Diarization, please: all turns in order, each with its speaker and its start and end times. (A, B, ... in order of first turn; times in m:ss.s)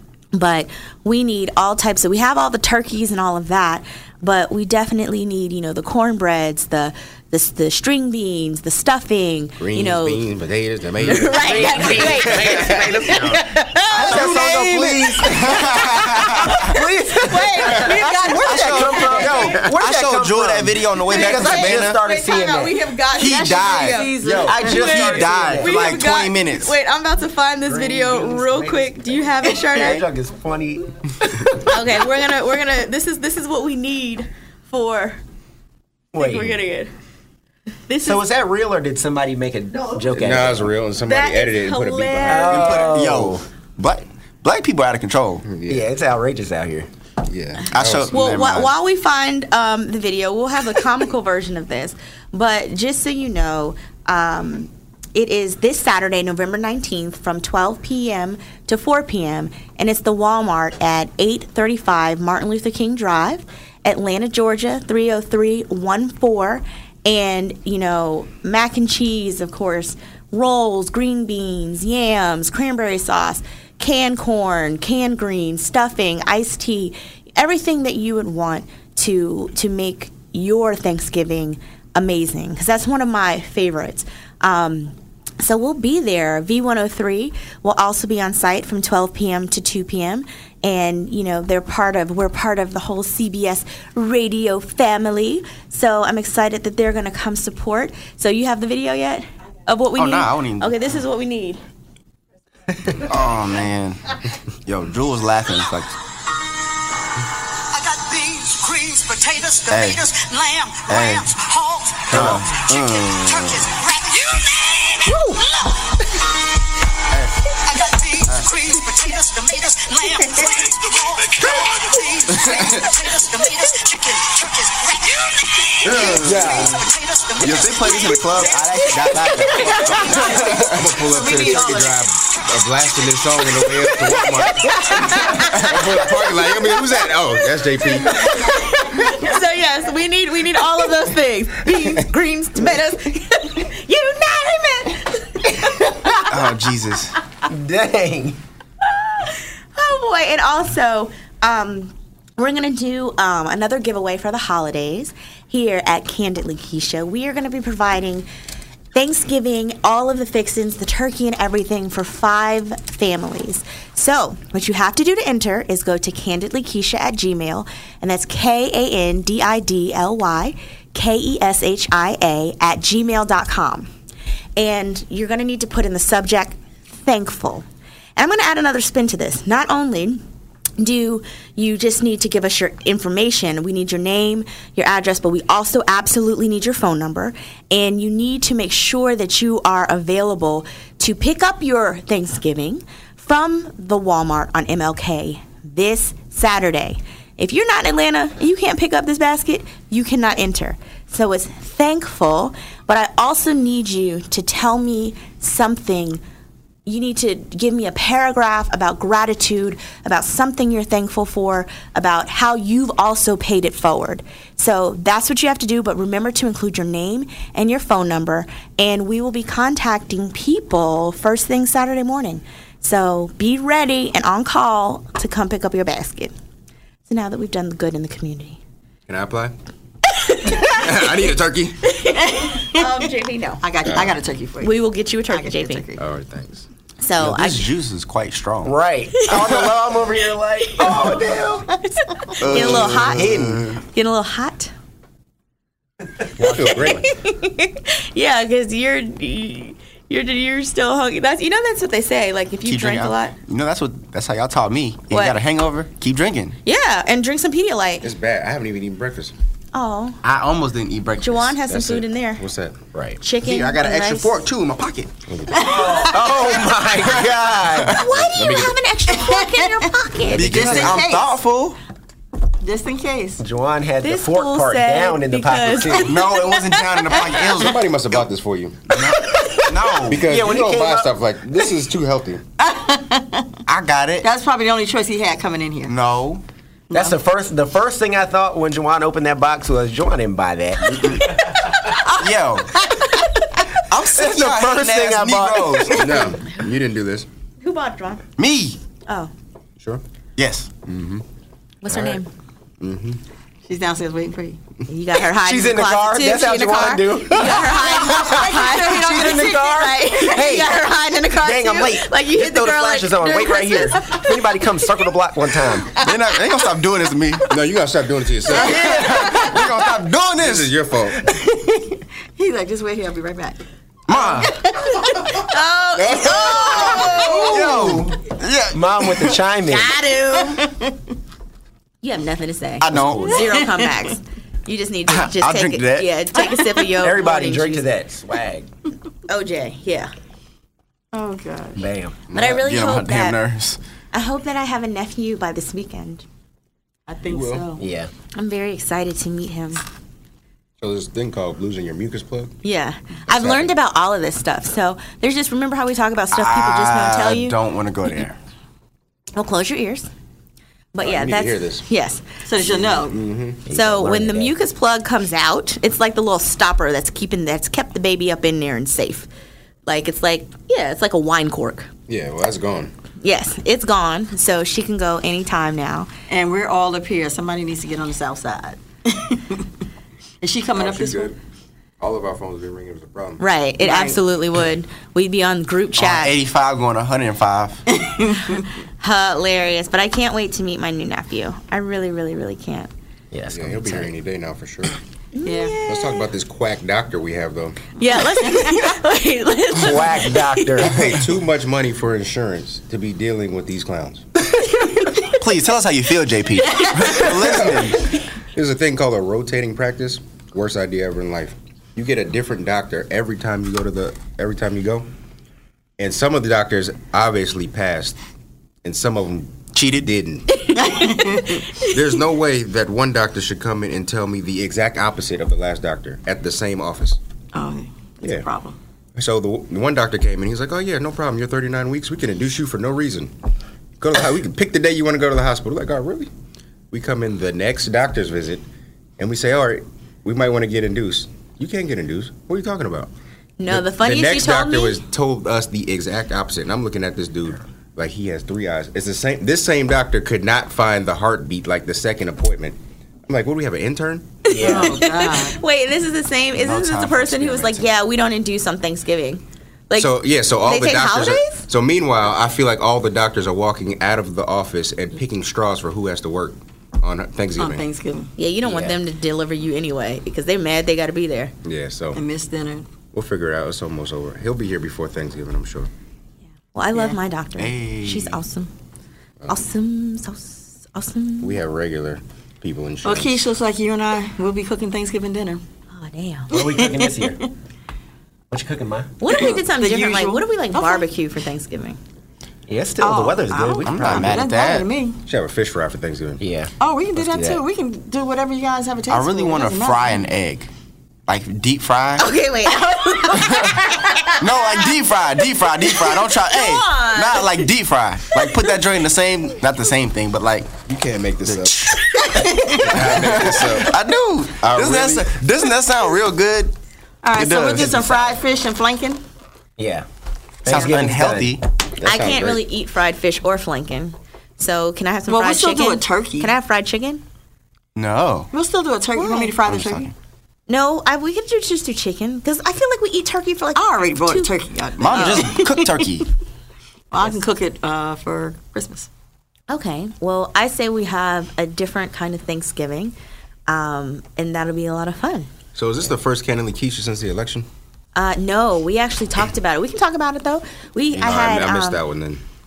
0:00.3-0:10.2 A
0:09.6-0:13.3 B
0:11.0-0:14.4 A
0:11.4-0:22.8 C
0:13.9-0:16.7 D
0:16.6-0:19.6 A
0:18.3-0:22.0 D
0:21.1-0:30.1 A
0:23.1-0:26.8 D
0:23.8-0:24.9 E
0:24.0-0:26.0 C
0:27.6-0:31.9 C
0:31.5-0:35.2 A
0:36.1-0:36.6 C
0:36.2-0:36.9 A
0:37.9-0:38.2 A
0:38.0-0:40.7 C
0:40.1-0:42.7 B
0:41.0-0:42.9 A
0:42.2-0:43.4 C
0:42.5-0:45.4 D
0:45.4-0:45.9 B
0:45.7-0:46.9 C
0:47.3-0:48.2 B
0:47.7-0:48.7 D
0:48.1-1:41.6 A
1:40.0-1:40.7 D
1:43.1-1:46.0 D
1:47.7-1:55.2 F
1:49.7-1:50.0 D
1:50.9-1:51.3 D
1:52.1-1:53.7 D
1:52.1-1:52.5 B
1:57.6-2:08.6 F
2:02.3-2:02.8 D
2:05.8-2:06.7 D
2:05.9-2:06.8 B
2:07.4-2:10.8 D
2:09.5-2:10.3 A
2:09.5-2:09.8 E
2:10.3-2:18.3 B
2:11.0-2:12.0 E
2:14.7-2:15.7 A
2:18.0-2:26.2 A
2:26.2-2:27.1 D
2:27.4-2:28.4 C
2:28.8-2:38.3 A
2:38.9-2:53.9 A
2:54.6-2:57.6 A
2:58.2-3:00.2 A
3:00.8-3:26.2 A
3:26.8-3:46.3 A
3:47.1-3:48.6 A
3:49.1-3:49.5 B
3:50.2-3:50.8 A
3:50.6-3:51.9 B
3:51.9-3:53.6 A
3:52.2-3:52.8 E
3:53.6-3:56.0 E
3:53.8-3:54.2 B
3:54.6-3:55.8 A
3:56.0-3:56.7 B
3:57.0-3:57.7 A
3:57.2-3:58.8 D
3:58.6-4:01.8 C
4:01.8-4:03.4 A
4:02.4-4:03.8 D
4:02.4-4:03.8 C
4:03.9-4:04.7 A
4:06.4-4:07.1 B
4:06.4-4:07.0 C
4:06.7-4:13.3 A
4:12.6-4:16.6 D
4:15.1-4:15.4 A
4:16.6-4:18.1 A
4:18.0-4:19.3 B
4:19.7-4:20.2 A
4:20.2-4:21.6 D
4:21.2-4:22.4 A
4:21.7-4:22.8 B
4:23.2-4:24.4 A
4:23.4-4:25.1 D
4:25.3-4:25.8 B
4:25.5-4:28.2 C
4:25.6-4:26.0 E
4:26.2-4:28.0 D
4:27.9-4:30.7 A
4:28.3-4:28.8 B
4:30.2-4:31.0 B
4:30.3-4:31.8 D
4:30.4-4:31.4 E
4:32.6-4:33.4 E
4:33.4-4:36.2 C
4:34.0-4:37.3 A
4:36.0-4:37.8 D
4:37.4-4:39.0 B
4:38.9-4:40.3 D
4:39.3-4:41.1 C
4:40.0-4:42.4 B
4:42.6-4:43.5 E
4:43.6-4:44.3 D
4:44.2-4:45.9 E
4:45.9-4:46.4 D
4:46.9-4:51.2 C
4:50.9-4:51.4 D
4:52.1-4:52.8 D
4:53.8-4:56.3 D
4:53.9-4:56.3 C
4:55.9-4:57.3 B
4:57.6-4:58.2 A
4:58.4-4:58.8 D
5:00.4-5:01.2 D
5:01.8-5:02.3 A
5:02.8-5:03.2 B
5:03.6-5:04.6 E
5:04.9-5:14.2 A
5:05.4-5:16.0 C
5:08.0-5:09.5 E
5:16.0-5:17.5 D
5:17.5-5:19.1 B
5:18.5-5:20.7 D
5:18.6-5:19.4 C
5:20.4-5:21.2 B
5:22.4-5:23.6 E
5:24.1-5:24.6 D
5:24.4-5:25.2 E
5:25.1-5:27.5 A
5:26.0-5:27.6 B
5:26.9-5:29.4 D
5:27.4-5:28.2 C
5:28.7-5:30.0 C
5:29.7-5:30.6 A
5:30.6-5:30.9 E
5:32.0-5:37.8 A
5:32.8-5:33.4 D
5:32.9-5:33.4 C
5:33.4-5:33.9 E
5:35.1-5:36.1 D
5:37.0-5:38.7 C
5:39.3-5:40.1 A
5:41.1-5:41.8 E
5:41.8-5:42.2 C
5:42.3-5:43.4 A
5:42.4-5:43.8 D
5:44.1-5:46.2 A
5:47.1-5:47.8 E
5:47.3-5:47.6 B
5:47.8-5:48.1 C
5:48.4-5:49.8 A
5:50.8-5:52.5 B
5:52.6-5:57.6 A
5:53.3-5:53.8 B
5:56.3-5:58.4 D
5:59.4-6:00.1 A
6:00.9-6:02.2 A
6:01.0-6:01.9 B
6:02.4-6:03.2 E
6:02.6-6:03.6 B
6:03.6-6:04.5 C
6:03.7-6:09.3 A
6:09.9-6:11.9 A
6:12.1-6:12.9 B
6:13.2-6:16.1 A
6:16.3-6:19.7 E
6:20.4-6:21.3 E
6:20.7-6:21.4 B
6:22.0-6:23.4 B
6:23.4-6:26.3 A
6:23.8-6:24.2 E
6:26.0-6:27.8 D
6:27.9-6:28.6 E
6:29.0-6:32.9 A
6:33.3-6:34.1 C
6:33.5-6:35.0 B
6:35.3-6:36.3 A
6:35.4-6:35.8 E
6:35.8-6:37.8 B
6:38.0-6:40.8 A
6:39.7-6:41.1 C
6:40.8-6:44.2 B
6:45.2-6:48.0 D
6:47.6-6:47.9 B
6:48.5-6:55.1 B
6:56.0-6:58.2 B
6:58.8-7:00.6 B
6:59.7-7:00.1 D
7:00.7-7:01.7 E
7:01.8-7:07.2 B
7:07.5-7:08.8 E
7:08.2-7:08.5 B
7:09.2-7:13.3 B
7:14.0-7:16.3 B
7:16.9-7:18.6 B
7:19.2-7:23.1 B
7:23.6-7:25.0 A
7:23.7-7:34.4 B
7:34.4-7:41.6 A
7:34.5-7:35.0 C
7:34.6-7:35.6 E
7:36.6-7:37.9 D
7:40.0-7:47.8 B
7:47.6-7:48.3 E
7:48.4-7:51.5 A
7:48.6-7:48.9 C
7:51.6-7:52.2 B
7:52.1-7:52.9 E
7:53.1-7:55.9 B
7:56.7-7:58.7 A
7:57.6-7:58.4 D
7:59.5-8:01.6 A
8:01.4-8:03.4 B
8:03.0-8:05.6 E
8:05.9-8:06.5 A
8:06.5-8:07.4 C
8:06.5-8:07.5 E
8:08.5-8:09.1 C
8:09.2-8:12.0 A
8:09.3-8:11.1 E
8:12.7-8:14.4 C
8:13.0-8:15.2 E
8:13.8-8:14.9 D
8:15.2-8:16.4 B
8:16.4-8:17.6 C
8:16.8-8:20.3 E
8:19.1-8:20.7 D
8:21.3-8:22.3 D
8:22.2-8:24.7 A
8:22.8-8:23.7 E
8:24.4-8:30.8 D
8:25.9-8:27.6 A
8:30.8-8:31.9 B
8:31.4-8:32.0 D
8:32.2-8:32.9 E
8:32.8-8:33.9 B
8:32.9-8:36.7 D
8:34.6-8:35.3 B
8:37.2-8:39.2 E
8:37.4-8:38.4 D
8:39.8-8:40.0 C
8:40.6-8:41.6 C
8:40.6-8:41.6 D
8:42.0-8:42.6 B
8:42.0-8:47.2 A
8:45.3-8:46.5 E
8:48.0-8:48.5 D
8:48.5-8:50.1 E
8:49.1-8:49.5 A
8:49.7-8:50.1 D
8:50.7-8:54.5 A
8:53.7-8:56.2 E
8:55.0-8:56.3 D
8:55.1-8:55.5 A
8:57.1-8:59.1 E
8:59.7-9:03.1 A
9:03.7-9:05.5 A
9:05.7-9:07.7 B
9:08.1-9:12.0 A
9:11.1-9:12.4 B